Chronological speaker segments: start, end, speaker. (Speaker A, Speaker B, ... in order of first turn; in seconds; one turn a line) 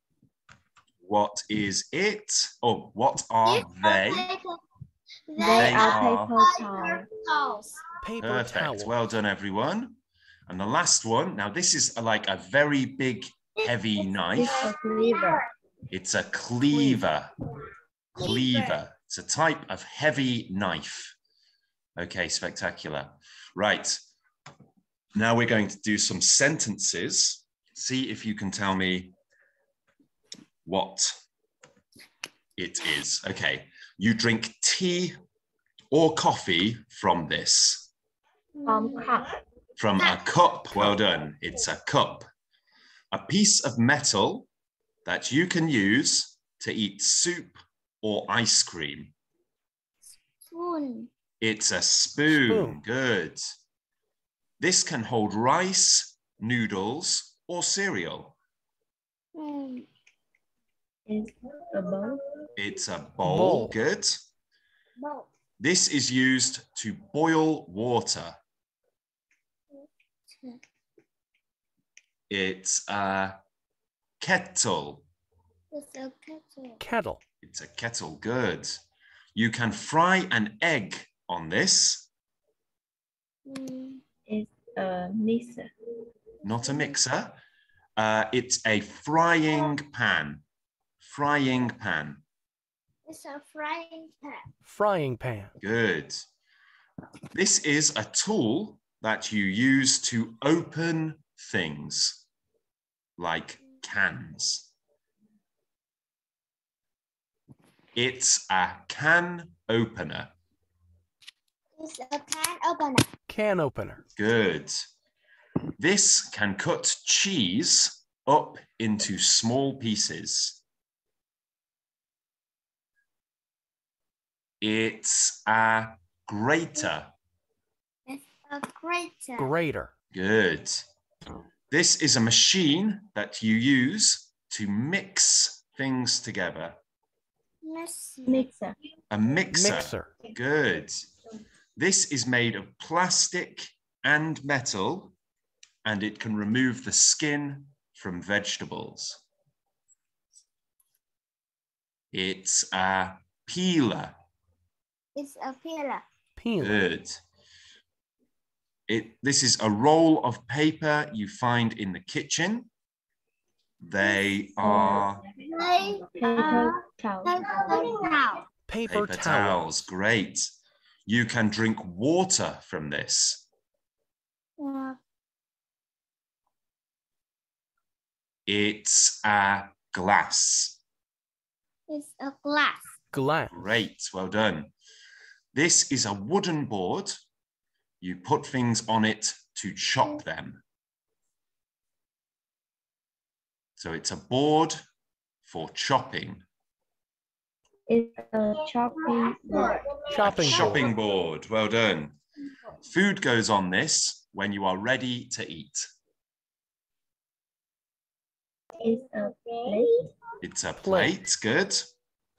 Speaker A: 1.0-4.3
Speaker B: 3.5-4.6
Speaker B: 5.3-7.8
Speaker C: 5.4-7.1
Speaker A: 5.5-6.3
Speaker D: 8.0-8.9
Speaker A: 8.2-14.7
Speaker B: 13.6-15.5
Speaker C: 14.3-15.4
Speaker A: 15.9-17.3
Speaker D: 16.7-17.0
Speaker B: 18.2-18.8
Speaker A: 18.2-21.1
Speaker A: 22.0-24.0
Speaker A: 25.1-29.1
Speaker A: 30.6-31.1
Speaker A: 32.6-35.1
Speaker A: 35.9-37.9
Speaker B: 38.5-39.2
Speaker C: 38.7-39.4
Speaker A: 39.8-42.2
Speaker D: 40.7-41.0
Speaker A: 43.1-44.5
Speaker A: 45.0-49.1
Speaker B: 50.4-51.1
Speaker A: 51.4-53.5
Speaker D: 52.3-52.8
Speaker A: 54.6-58.4
Speaker B: 59.4-59.9
Speaker C: 61.0-62.2
Speaker A: 62.5-64.2
Speaker D: 63.2-63.8
Speaker B: 65.0-65.3
Speaker A: 65.6-68.4
Speaker B: 69.7-70.6
Speaker A: 72.3-73.4
Speaker A: 74.2-75.0
Speaker B: 75.7-76.8
Speaker D: 76.8-77.2
Speaker A: 77.4-78.8
Speaker A: 79.3-82.1
Speaker B: 83.5-84.0
Speaker C: 84.3-85.7
Speaker A: 86.4-87.4
Speaker B: 86.6-87.0
Speaker A: 88.0-90.4
Speaker A: 91.0-92.2
Speaker B: 93.0-94.5
Speaker D: 94.7-95.6
Speaker A: 95.6-96.2
Speaker A: 97.3-102.2
Speaker A: 103.2-104.7
Speaker A: 108.0-110.3
Speaker B: 111.8-113.1
Speaker D: 113.3-114.0
Speaker A: 114.2-114.8
Speaker A: 115.8-120.6
Speaker A: 124.6-127.1
Speaker B: 128.1-129.5
Speaker D: 129.4-129.9
Speaker A: 130.1-130.8
Speaker A: 131.7-136.8
Speaker B: 137.6-138.5
Speaker C: 138.2-138.8
Speaker A: 139.1-141.1
Speaker D: 139.5-140.1
Speaker A: 141.8-145.1
Speaker A: 145.8-149.2
Speaker A: 152.1-154.2
Speaker B: 155.2-156.0
Speaker D: 156.4-156.8
Speaker A: 156.6-157.2
Speaker A: 158.9-162.7
Speaker A: 163.8-165.2
Speaker C: 164.6-165.2
Speaker B: 165.4-168.4
Speaker C: 166.1-167.9
Speaker D: 168.7-169.7
Speaker A: 168.9-170.5
Speaker A: 171.1-173.4
Speaker B: 174.6-175.0
Speaker A: 178.5-180.8
Speaker B: 181.9-182.9
Speaker D: 183.1-183.6
Speaker A: 183.5-184.7
Speaker A: 185.5-187.2
Speaker A: 188.0-190.6
Speaker A: 193.8-194.8
Speaker A: 195.4-196.4
Speaker C: 197.9-199.8
Speaker B: 199.0-200.5
Speaker D: 200.1-200.9
Speaker A: 200.2-202.2
Speaker A: 202.8-205.9
Speaker B: 208.8-209.9
Speaker C: 208.8-210.1
Speaker A: 210.4-211.9
Speaker D: 210.8-211.2